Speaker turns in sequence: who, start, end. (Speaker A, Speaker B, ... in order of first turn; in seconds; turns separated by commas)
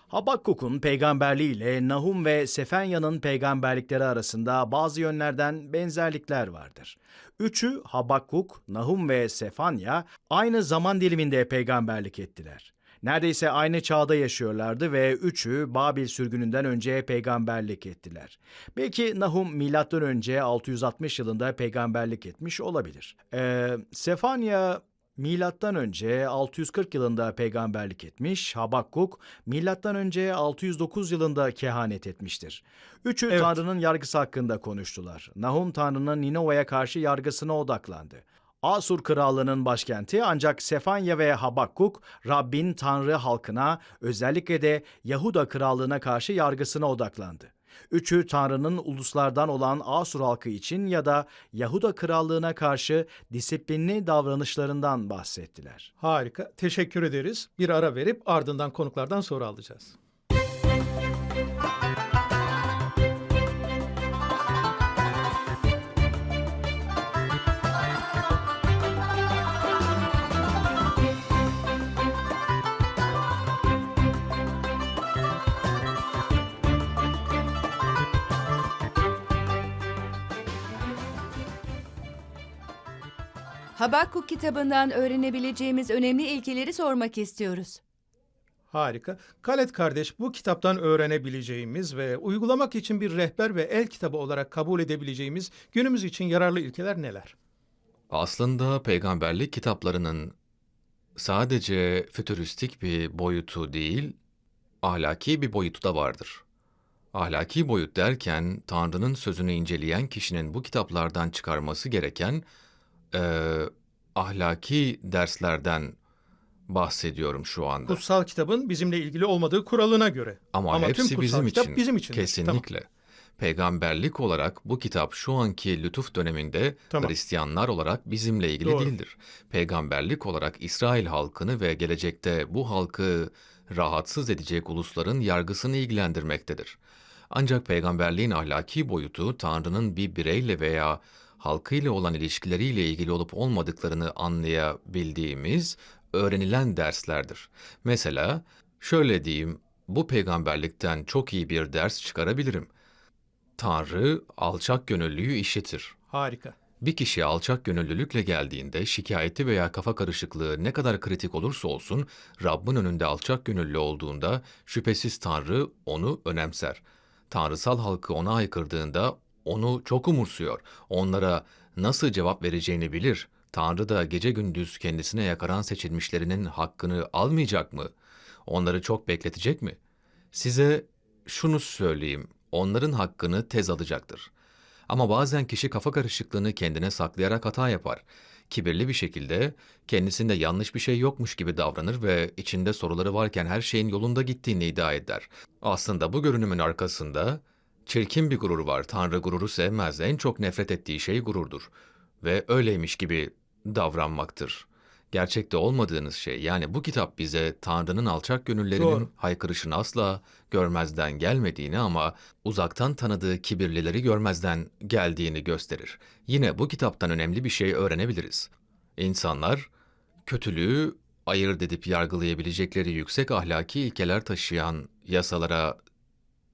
Speaker A: 0.1-55.9, Speaker B: 33.3-33.6, Speaker B: 56.0-59.9, Speaker C: 83.8-87.8, Speaker B: 88.7-97.3, Speaker D: 98.1-100.3, Speaker D: 101.2-104.2, Speaker D: 104.8-106.4, Speaker D: 107.1-112.4, Speaker D: 113.1-116.0, Speaker D: 116.7-118.0, Speaker B: 117.8-122.6, Speaker D: 120.5-122.9, Speaker D: 123.4-136.8, Speaker B: 128.6-128.9, Speaker D: 137.3-152.7, Speaker D: 153.6-155.9, Speaker B: 156.1-156.6, Speaker D: 156.8-177.9, Speaker D: 178.4-179.8, Speaker D: 180.3-184.3, Speaker D: 184.9-201.7, Speaker D: 202.2-219.7, Speaker B: 208.8-209.1, Speaker D: 220.2-225.8